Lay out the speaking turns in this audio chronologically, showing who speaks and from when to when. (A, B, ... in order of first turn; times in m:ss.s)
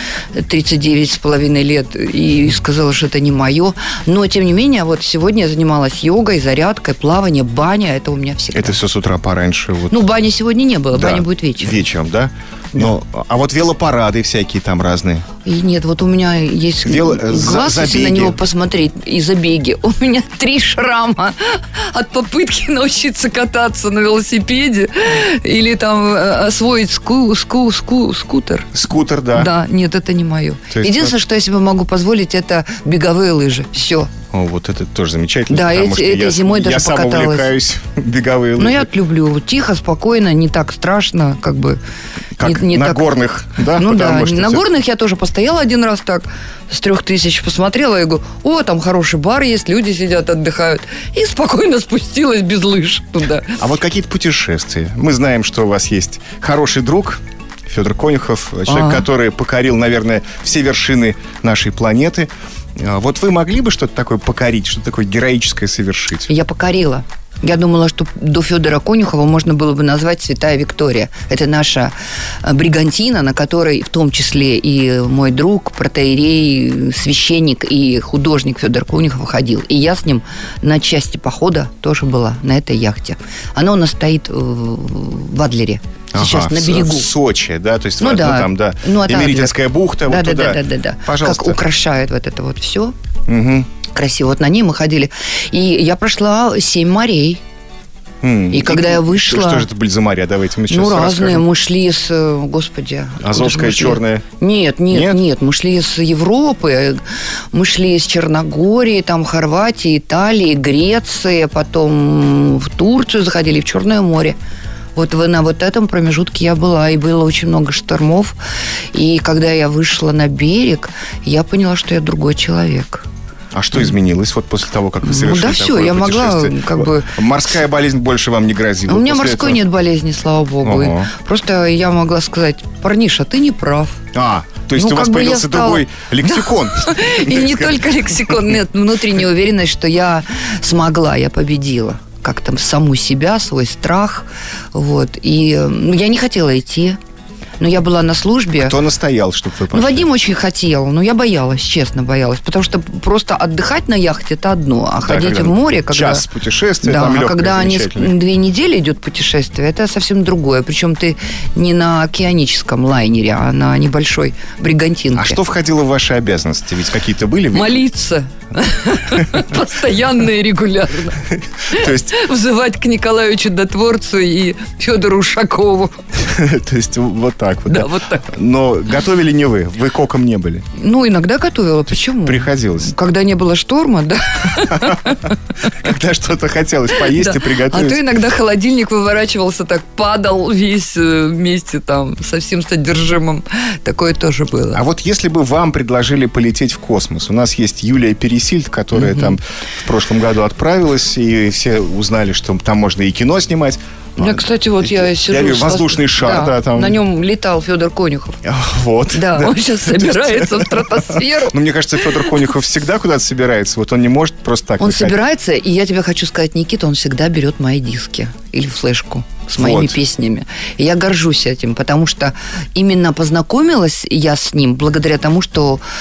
0:00.3-0:08.8 A
0:08.5-0:10.0 B
0:09.9-0:11.8 A
0:10.9-0:15.3 B
0:15.4-0:28.7 A
0:16.8-0:18.4 B
0:28.7-0:29.5 B
0:29.3-0:34.1 A
0:30.7-0:31.1 B
0:34.3-0:38.9 B
0:35.5-0:37.5 A
0:38.6-0:41.8 A
0:42.4-0:44.6 B
0:42.4-0:43.0 A
0:43.7-0:53.6 A
0:53.6-1:06.3 B
0:58.7-0:59.0 A
1:06.3-1:27.1 A
1:26.1-1:31.6 B
1:28.0-1:32.9 A
1:33.3-1:33.7 B
1:33.9-1:37.4 A
1:38.2-1:41.4 B
1:38.5-1:39.7 A
1:40.7-1:47.0 A
1:43.2-1:44.2 B
1:44.9-1:45.2 B
1:47.5-1:54.4 A
1:54.9-1:58.4 A
1:58.9-2:03.0 A
2:03.5-2:09.6 B
2:05.0-2:07.2 A
2:08.9-2:14.0 A
2:10.6-2:11.1 B
2:14.1-2:18.4 B
2:14.7-2:27.0 A
2:27.6-2:28.8 A
2:28.6-2:30.1 B
2:29.7-2:36.2 A
2:35.0-2:38.1 B
2:36.8-2:45.4 A
2:45.1-2:47.8 B
2:47.5-2:56.0 A
2:51.3-2:52.2 B
2:56.2-3:00.6 B
2:57.7-2:58.3 A
3:00.8-3:05.4 A
3:02.2-3:02.9 B
3:04.6-3:05.1 B
3:05.8-3:08.0 B
3:07.0-3:14.8 A
3:14.7-3:27.0 B
3:18.9-3:19.4 A
3:24.2-3:28.4 A
3:28.4-3:35.2 B
3:29.1-3:31.6 A
3:34.8-3:45.8 A
3:39.6-3:40.0 B